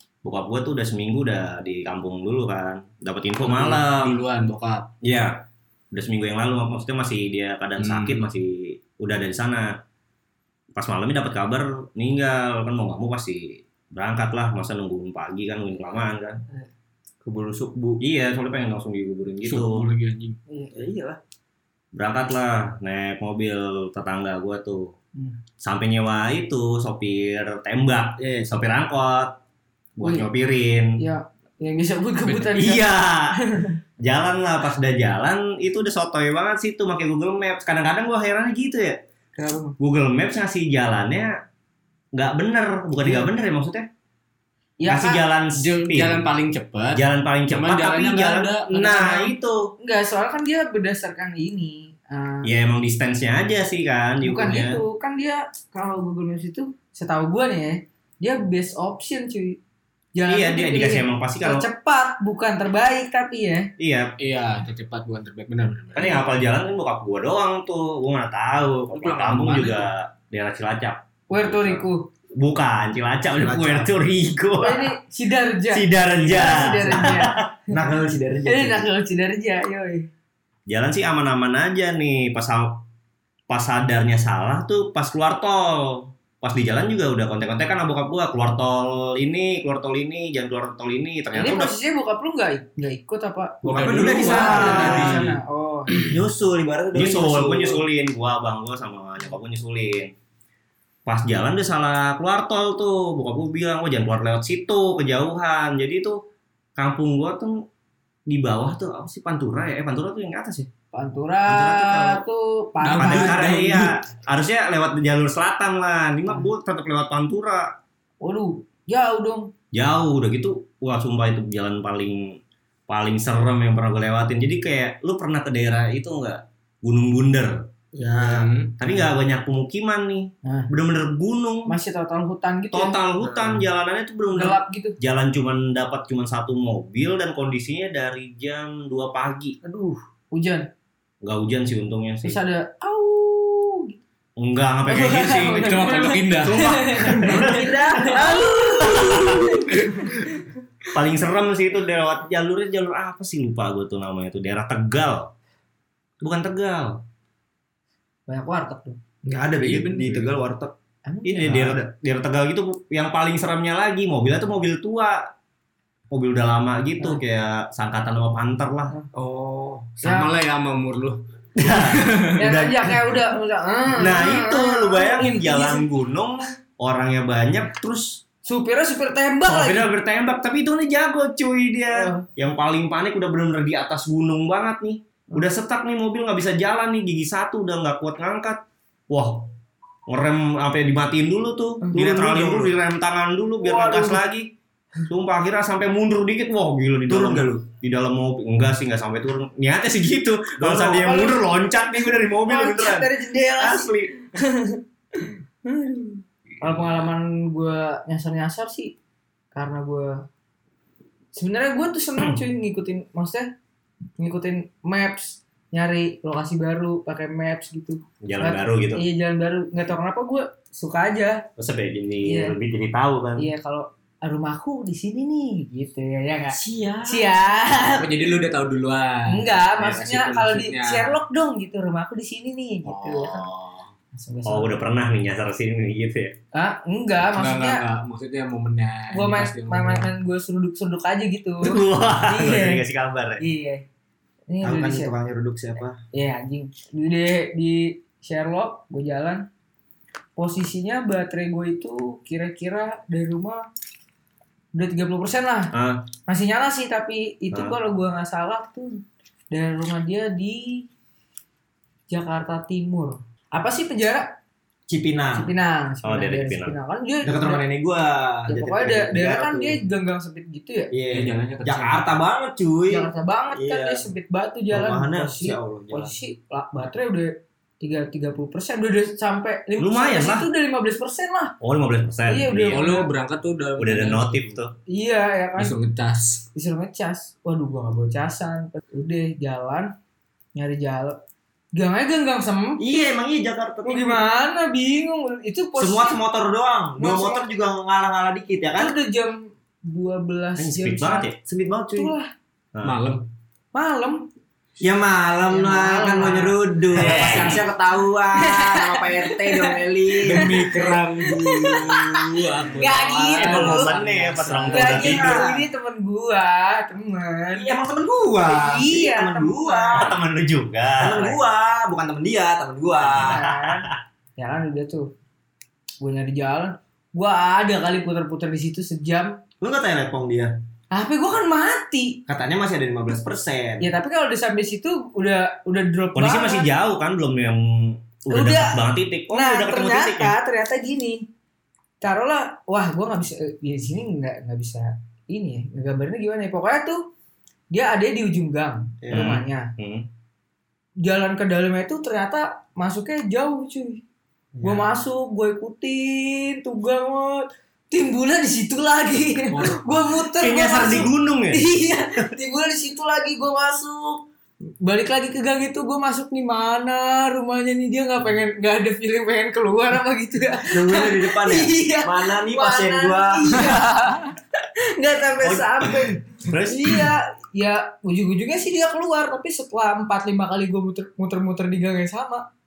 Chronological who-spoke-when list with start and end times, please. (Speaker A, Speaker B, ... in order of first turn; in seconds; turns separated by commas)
Speaker A: 0.2-4.2, Speaker B: 3.4-4.9, Speaker A: 5.0-5.4, Speaker A: 5.9-9.7, Speaker B: 7.8-8.3, Speaker A: 10.7-16.4, Speaker C: 17.2-18.0, Speaker A: 18.0-19.9, Speaker B: 19.4-20.4, Speaker D: 20.5-20.8, Speaker C: 20.7-21.2, Speaker A: 21.9-24.9, Speaker A: 25.6-29.3, Speaker C: 28.2-28.5, Speaker A: 29.9-30.9, Speaker D: 30.0-30.3, Speaker D: 31.0-33.7, Speaker A: 32.5-33.3, Speaker A: 34.0-39.0, Speaker D: 39.4-39.8, Speaker A: 39.8-41.3, Speaker A: 42.1-43.9, Speaker D: 43.0-43.3, Speaker D: 44.8-45.2, Speaker A: 44.9-46.2, Speaker B: 45.5-49.3, Speaker A: 46.9-49.7, Speaker D: 49.8-52.5, Speaker A: 52.4-54.8, Speaker D: 54.2-59.6, Speaker D: 60.1-63.7, Speaker A: 60.3-61.7, Speaker A: 63.8-64.1, Speaker B: 64.2-66.1, Speaker A: 66.0-74.9, Speaker B: 68.9-69.9, Speaker D: 71.3-72.0, Speaker C: 73.3-73.9, Speaker D: 74.6-77.5, Speaker A: 75.7-77.5, Speaker C: 76.8-78.9, Speaker D: 78.5-80.1, Speaker A: 80.7-82.8, Speaker A: 83.5-91.8, Speaker D: 91.3-96.1, Speaker C: 93.6-95.3, Speaker B: 93.6-95.3, Speaker A: 94.1-95.1, Speaker C: 96.1-97.8, Speaker A: 96.9-100.1, Speaker A: 101.0-106.2, Speaker A: 106.8-107.5, Speaker A: 108.3-110.7, Speaker D: 110.9-113.5, Speaker A: 111.5-112.2, Speaker B: 112.8-113.9, Speaker A: 113.0-117.7, Speaker D: 118.2-119.5, Speaker A: 119.7-127.6, Speaker C: 127.9-128.5, Speaker B: 128.2-129.1, Speaker A: 128.8-131.7, Speaker D: 131.7-133.0, Speaker A: 132.7-139.6, Speaker C: 133.2-133.6, Speaker D: 134.3-135.0, Speaker D: 139.6-140.7, Speaker A: 141.2-142.4, Speaker D: 142.2-144.0, Speaker A: 144.4-149.5, Speaker D: 144.9-150.5, Speaker B: 145.5-147.3, Speaker C: 147.3-148.6, Speaker A: 150.9-155.3, Speaker A: 156.2-157.0, Speaker D: 158.3-159.0, Speaker C: 159.2-160.7, Speaker B: 159.6-160.3, Speaker D: 161.1-161.6, Speaker A: 161.2-165.3, Speaker A: 166.1-168.9, Speaker C: 169.1-169.9, Speaker B: 170.0-172.3, Speaker D: 170.0-170.3, Speaker A: 171.6-173.2, Speaker D: 172.3-175.8, Speaker A: 173.9-178.2, Speaker D: 178.4-179.9, Speaker A: 179.4-189.5, Speaker D: 181.9-182.2, Speaker A: 190.1-194.5, Speaker C: 191.9-192.7, Speaker D: 193.6-194.2, Speaker A: 195.1-204.1, Speaker C: 197.1-197.7, Speaker C: 200.6-201.2, Speaker D: 201.0-201.4, Speaker D: 202.4-208.9, Speaker D: 209.5-210.1, Speaker D: 211.3-213.5, Speaker D: 214.2-221.4, Speaker A: 218.2-219.0, Speaker A: 221.6-223.5, Speaker D: 222.2-222.6, Speaker D: 223.4-228.2, Speaker C: 226.5-227.3, Speaker B: 227.9-231.1, Speaker D: 229.3-233.4, Speaker B: 232.8-233.9, Speaker D: 234.1-234.9, Speaker A: 234.4-236.3, Speaker D: 236.5-237.8, Speaker B: 237.2-240.1, Speaker D: 239.1-242.8, Speaker A: 241.6-243.4, Speaker D: 243.4-243.8, Speaker D: 244.5-245.1, Speaker C: 244.6-246.0, Speaker D: 246.1-249.5, Speaker D: 250.3-253.6, Speaker D: 254.7-255.7, Speaker A: 255.7-256.0, Speaker D: 256.3-259.0, Speaker D: 259.5-260.8, Speaker D: 262.1-264.2, Speaker C: 264.9-265.5, Speaker D: 265.4-267.6, Speaker A: 266.0-266.8, Speaker C: 267.2-269.8, Speaker D: 268.5-270.9, Speaker C: 270.9-274.1, Speaker B: 271.1-272.2, Speaker D: 272.9-281.5, Speaker C: 274.7-276.1, Speaker A: 279.8-280.5, Speaker A: 281.6-282.9, Speaker D: 282.3-283.1, Speaker B: 282.7-284.5, Speaker A: 283.8-284.7, Speaker D: 284.9-285.8, Speaker B: 285.6-286.4, Speaker D: 286.5-289.9, Speaker D: 290.5-291.2, Speaker D: 291.7-292.9, Speaker C: 292.8-294.2, Speaker D: 293.8-296.2, Speaker C: 295.8-298.9, Speaker D: 297.0-297.4, Speaker D: 298.7-301.3, Speaker A: 300.6-301.4, Speaker C: 301.5-302.1, Speaker D: 301.9-302.3, Speaker B: 302.8-303.3, Speaker D: 303.7-304.2, Speaker C: 304.8-310.5, Speaker D: 305.5-307.7, Speaker A: 306.9-307.6, Speaker D: 308.3-309.7, Speaker B: 310.2-315.1, Speaker D: 310.3-317.7, Speaker A: 313.3-315.4, Speaker C: 314.8-315.6, Speaker C: 317.5-320.1, Speaker D: 318.4-320.1, Speaker A: 319.9-321.4, Speaker C: 321.0-323.4, Speaker A: 323.1-323.9, Speaker D: 323.1-325.1, Speaker D: 326.0-329.3, Speaker C: 329.6-330.5, Speaker D: 330.9-332.2, Speaker C: 332.3-333.9, Speaker D: 333.8-336.7, Speaker A: 336.1-340.3, Speaker D: 338.3-341.2, Speaker D: 342.0-347.0, Speaker D: 347.7-349.7, Speaker C: 349.0-349.3, Speaker A: 349.1-350.1, Speaker D: 351.0-354.0, Speaker C: 354.5-354.9, Speaker D: 354.6-364.2, Speaker B: 359.5-359.9, Speaker A: 360.3-361.7, Speaker D: 364.8-374.3, Speaker C: 370.7-373.7, Speaker D: 375.0-382.4, Speaker A: 375.4-375.7, Speaker A: 376.5-377.1